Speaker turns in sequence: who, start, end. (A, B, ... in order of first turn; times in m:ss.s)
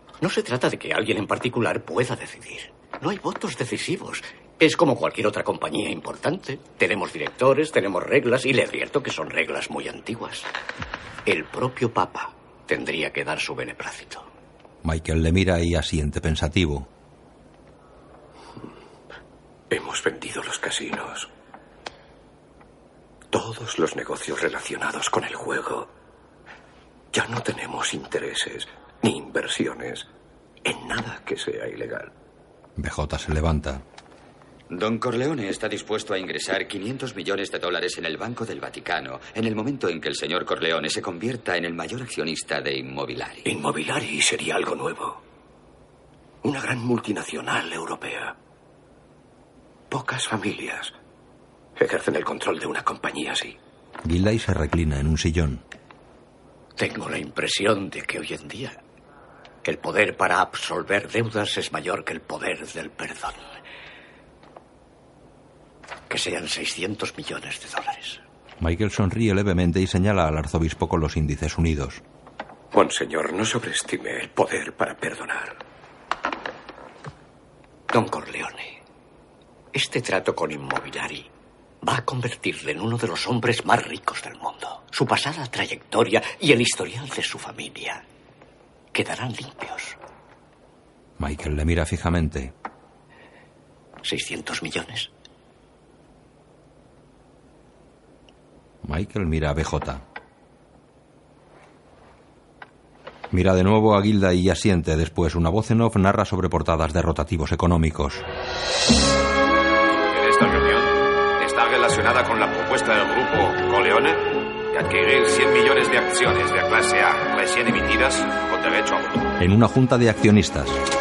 0:00.2-0:10.5 A
0:11.3-0:14.3 A
0:14.8-0:16.9 B
0:19.7-0:21.3 C
0:23.3-0:25.9 C
0:27.1-0:30.1 C
0:30.6-0:32.1 C
0:32.8-0:33.8 B
0:34.7-0:43.5 D
0:43.4-0:45.2 C
0:46.4-0:48.4 C
0:49.9-0:50.9 C
0:51.8-0:53.6 C
0:54.0-0:55.6 B
0:56.8-0:58.8 A
0:59.6-1:03.5 A
1:06.1-1:08.2 A
1:08.6-1:12.0 B
1:12.7-1:15.6 C
1:17.9-1:18.8 A
1:19.7-1:21.3 A
1:21.8-1:28.0 A
1:28.9-1:30.0 A
1:31.2-1:32.5 B
1:34.0-1:35.1 A
1:38.8-1:40.0 B
1:43.3-1:48.2 B
1:50.1-1:59.3 E
1:59.4-2:00.8 B